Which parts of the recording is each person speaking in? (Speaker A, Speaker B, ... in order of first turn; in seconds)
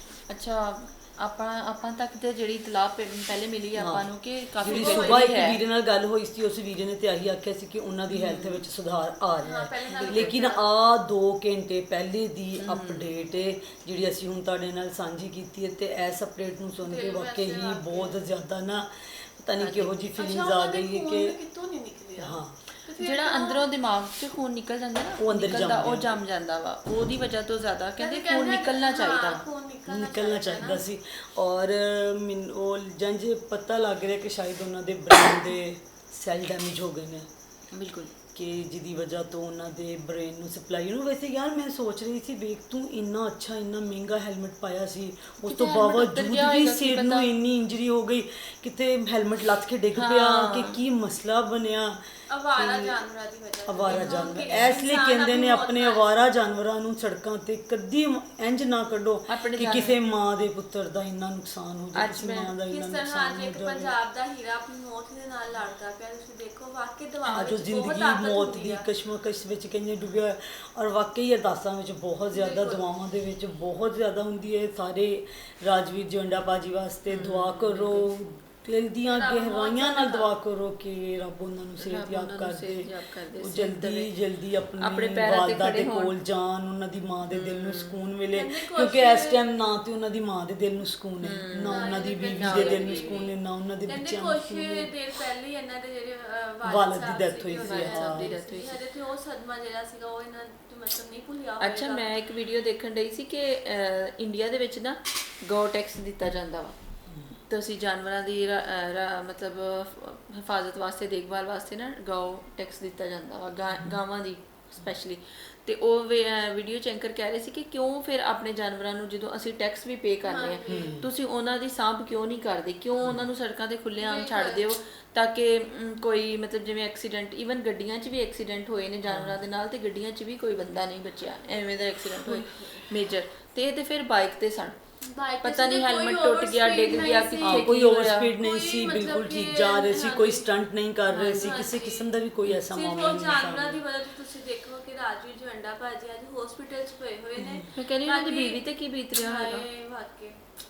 Speaker A: 0.3-5.6, 8.1-8.6, 10.0-10.5, 12.6-13.1, 19.6-19.9, 23.0-29.4, 37.7-38.1, 45.5-47.3, 50.0-50.8, 59.3-60.0, 62.0-62.5, 77.1-78.1, 81.8-84.1, 84.8-86.2, 87.3-88.0, 91.2-93.2, 97.6-98.8, 101.6-106.8, 107.5-134.8, 135.4-138.3, 141.1-141.6, 147.8-149.6
Speaker B: 3.8-4.1, 4.6-21.4, 22.2-22.6, 25.2-26.2, 29.9-37.3, 38.3-52.0, 52.6-53.0, 53.7-64.0, 67.3-94.9, 96.7-98.3, 107.1-107.4, 120.7-121.1, 129.1-129.4, 137.4-143.8, 147.4-147.7
Speaker C: 4.7-5.3, 9.4-10.6, 16.8-18.2, 20.2-23.6, 28.0-30.8, 52.3-56.1, 62.7-68.9, 72.3-72.8, 79.1-80.3, 88.3-89.5, 91.7-93.3, 93.9-102.1, 120.2-121.0, 124.0-124.7, 132.2-132.9, 135.0-137.8, 138.4-140.5, 141.2-142.1, 142.7-148.6, 149.1-150.4